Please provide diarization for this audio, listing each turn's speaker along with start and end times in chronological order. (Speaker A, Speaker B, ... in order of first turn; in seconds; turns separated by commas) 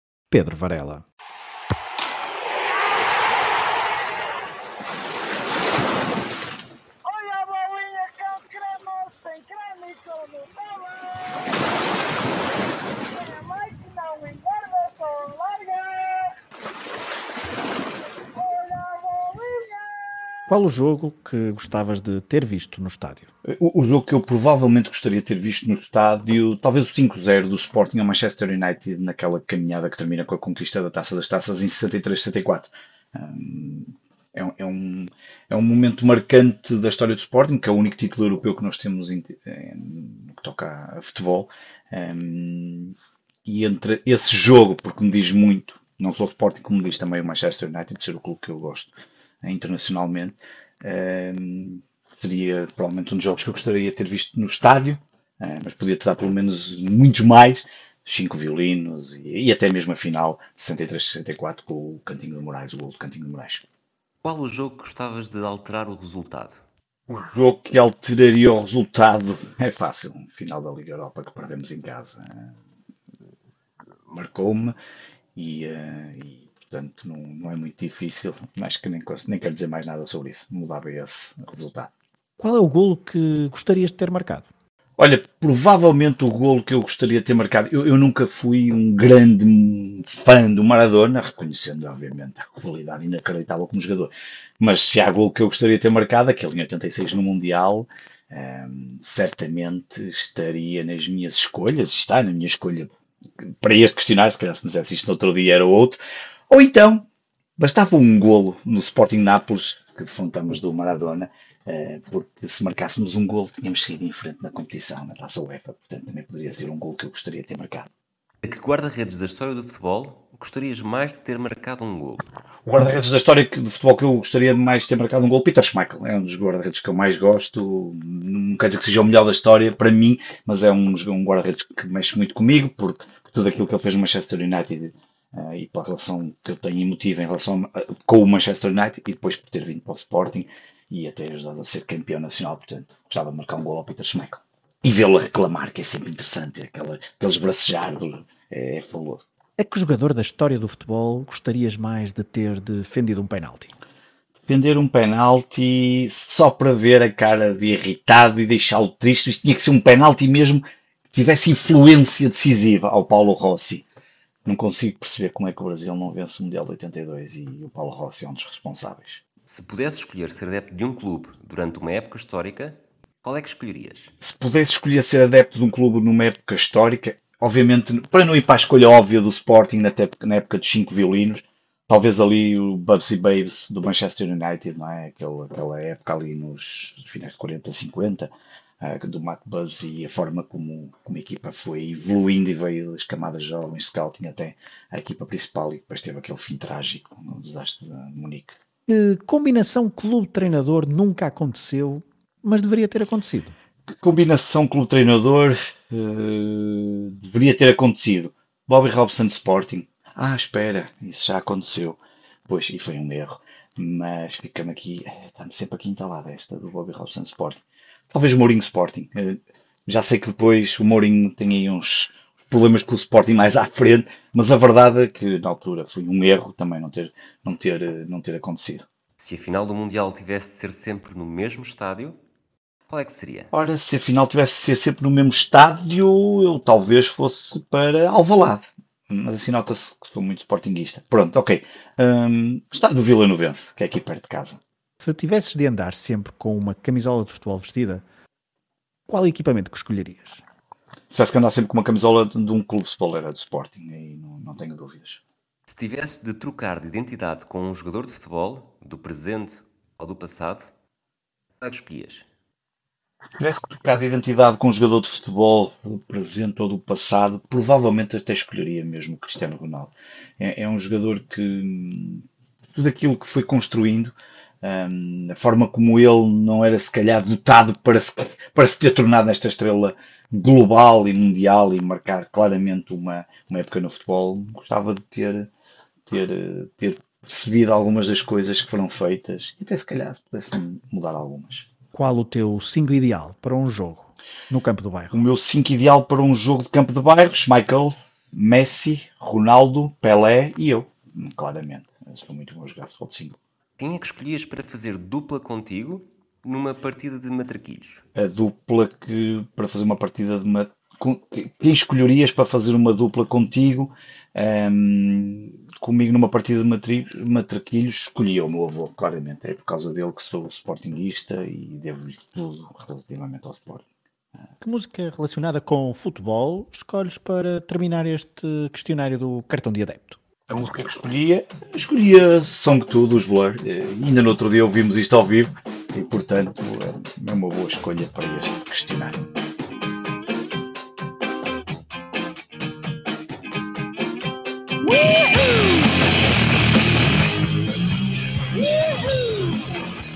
Speaker A: 0.3-1.0, Speaker B: 7.0-11.6, Speaker B: 13.1-16.4, Speaker B: 18.4-20.3, Speaker A: 20.5-23.3, Speaker C: 23.4-63.7, Speaker D: 64.2-66.6, Speaker C: 67.1-72.5, Speaker C: 74.1-74.7, Speaker C: 75.3-81.9, Speaker A: 82.4-84.5, Speaker C: 85.0-107.0, Speaker C: 107.6-117.9, Speaker D: 118.4-122.2, Speaker C: 122.7-149.3, Speaker A: 149.6-153.7, Speaker C: 154.4-163.8, Speaker C: 164.4-169.2, Speaker D: 169.4-174.1, Speaker C: 174.2-198.6, Speaker A: 198.9-203.5, Speaker C: 204.0-228.8, Speaker D: 229.2-232.2, Speaker D: 232.9-233.5, Speaker C: 233.5-244.6, Speaker A: 245.0-248.0, Speaker A: 249.1-250.4, Speaker C: 251.1-255.2, Speaker D: 255.7-260.7, Speaker D: 261.6-262.3, Speaker C: 263.4-285.5, Speaker C: 286.1-291.7, Speaker A: 291.9-295.2, Speaker C: 295.1-303.4, Speaker D: 303.8-308.0, Speaker C: 308.1-323.8, Speaker A: 324.6-330.2, Speaker C: 330.5-339.1, Speaker B: 348.6-349.4